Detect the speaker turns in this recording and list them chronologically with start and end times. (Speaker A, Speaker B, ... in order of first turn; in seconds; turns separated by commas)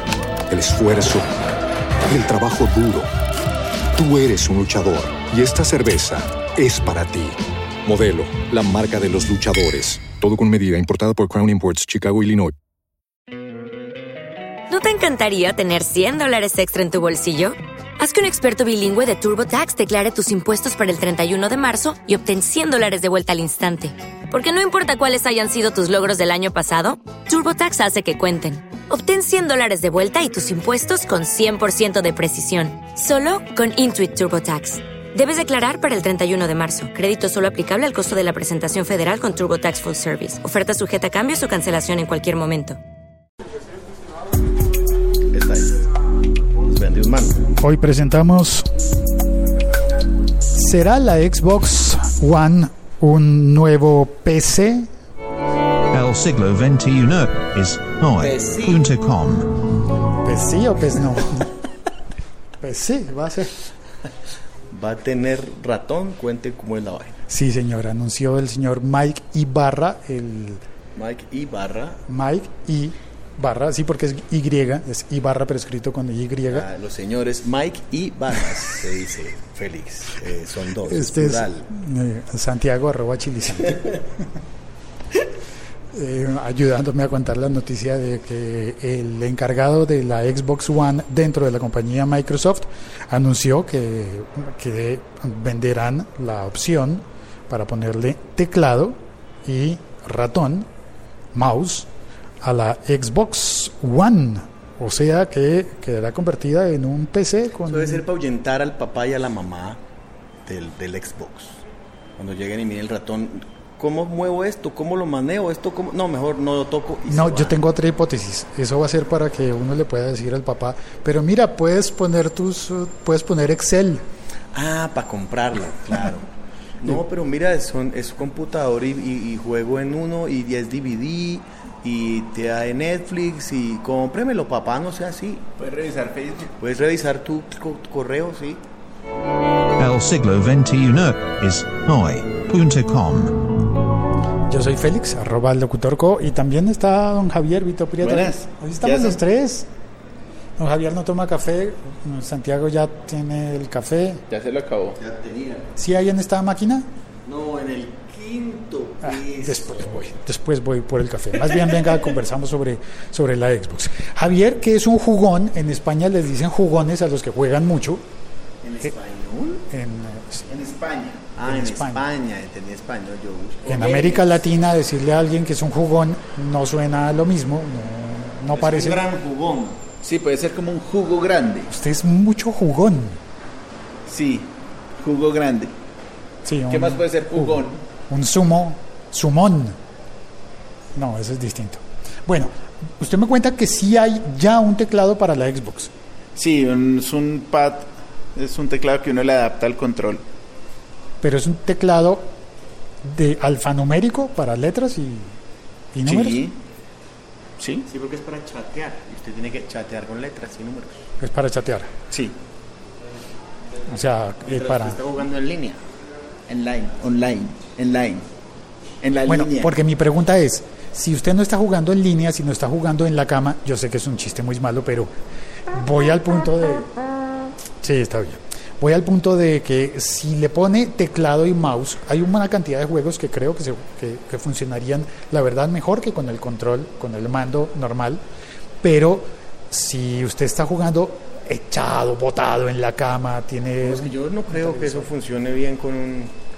Speaker A: 0.5-1.3, Speaker A: 2.0-3.1, Speaker A: 3.9-12.5, Speaker B: 14.7-42.8, Speaker C: 45.3-45.7, Speaker C: 46.7-47.4, Speaker D: 47.6-48.6, Speaker D: 50.5-54.9, Speaker E: 55.9-59.5, Speaker C: 58.1-59.0, Speaker D: 60.2-61.5, Speaker D: 62.6-63.5, Speaker C: 64.7-67.2, Speaker D: 67.3-70.6, Speaker C: 70.9-72.0, Speaker D: 72.1-76.7, Speaker C: 76.5-81.7, Speaker D: 80.8-84.1, Speaker D: 85.9-100.7, Speaker D: 101.3-101.9, Speaker D: 102.4-108.0, Speaker C: 107.6-109.8, Speaker C: 110.4-111.6, Speaker C: 112.2-117.6, Speaker D: 117.1-124.0, Speaker C: 124.5-126.2, Speaker C: 126.8-135.4, Speaker F: 135.6-136.5, Speaker C: 136.6-138.6, Speaker E: 139.8-143.4, Speaker D: 144.5-149.7, Speaker F: 148.0-149.2, Speaker D: 150.6-154.2, Speaker F: 154.3-154.9, Speaker C: 154.9-155.7, Speaker D: 155.8-156.9, Speaker C: 157.2-160.0, Speaker D: 159.0-168.0, Speaker C: 168.6-169.6, Speaker D: 169.7-170.4, Speaker F: 170.5-171.2, Speaker C: 171.3-174.4, Speaker D: 171.4-172.0, Speaker D: 173.7-179.0, Speaker C: 178.5-179.8, Speaker F: 180.0-181.7, Speaker D: 181.7-183.2, Speaker F: 184.1-185.7, Speaker D: 186.4-189.8, Speaker F: 186.7-187.8, Speaker D: 190.9-195.9, Speaker F: 196.3-200.2, Speaker D: 201.2-202.3, Speaker D: 203.0-205.3, Speaker D: 205.9-206.4, Speaker F: 206.0-206.6, Speaker F: 207.6-207.8, Speaker C: 207.9-211.0, Speaker D: 211.2-211.9, Speaker F: 212.1-212.3, Speaker D: 213.9-215.0, Speaker C: 214.4-215.8, Speaker F: 216.5-218.2, Speaker F: 219.0-219.7, Speaker D: 219.2-225.1, Speaker D: 225.7-226.9, Speaker D: 227.8-238.2, Speaker D: 238.8-245.1, Speaker C: 243.8-246.3